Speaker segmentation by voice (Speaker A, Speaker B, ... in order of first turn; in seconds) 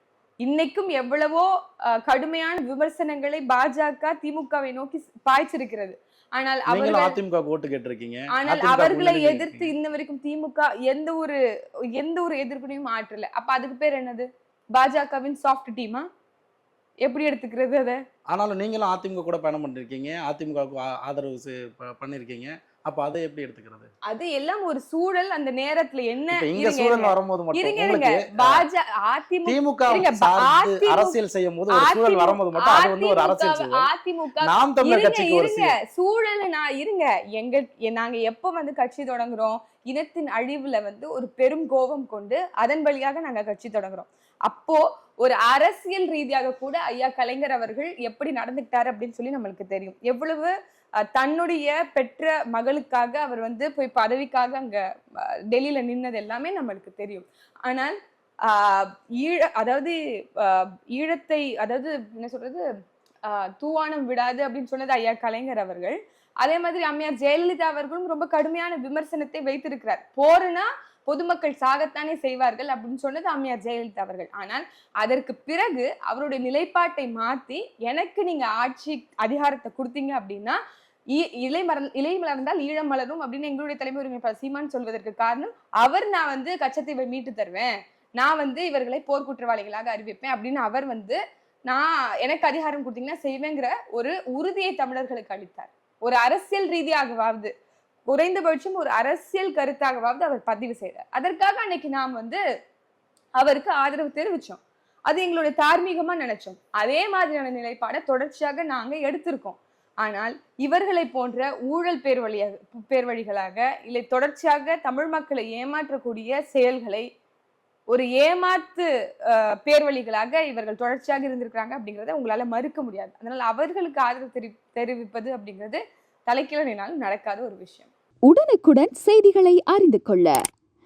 Speaker A: 0.4-7.2, 8.3-16.1, 17.0-18.0, 24.1-31.1, 31.7-62.7, 63.2-80.6, 81.1-97.5, 98.1-102.4, 103.4-117.1, 117.9-127.9
Speaker B: 6.7-9.7, 18.3-23.9, 26.3-28.6, 29.4-33.9, 34.4-35.8
Speaker C: 128.2-130.3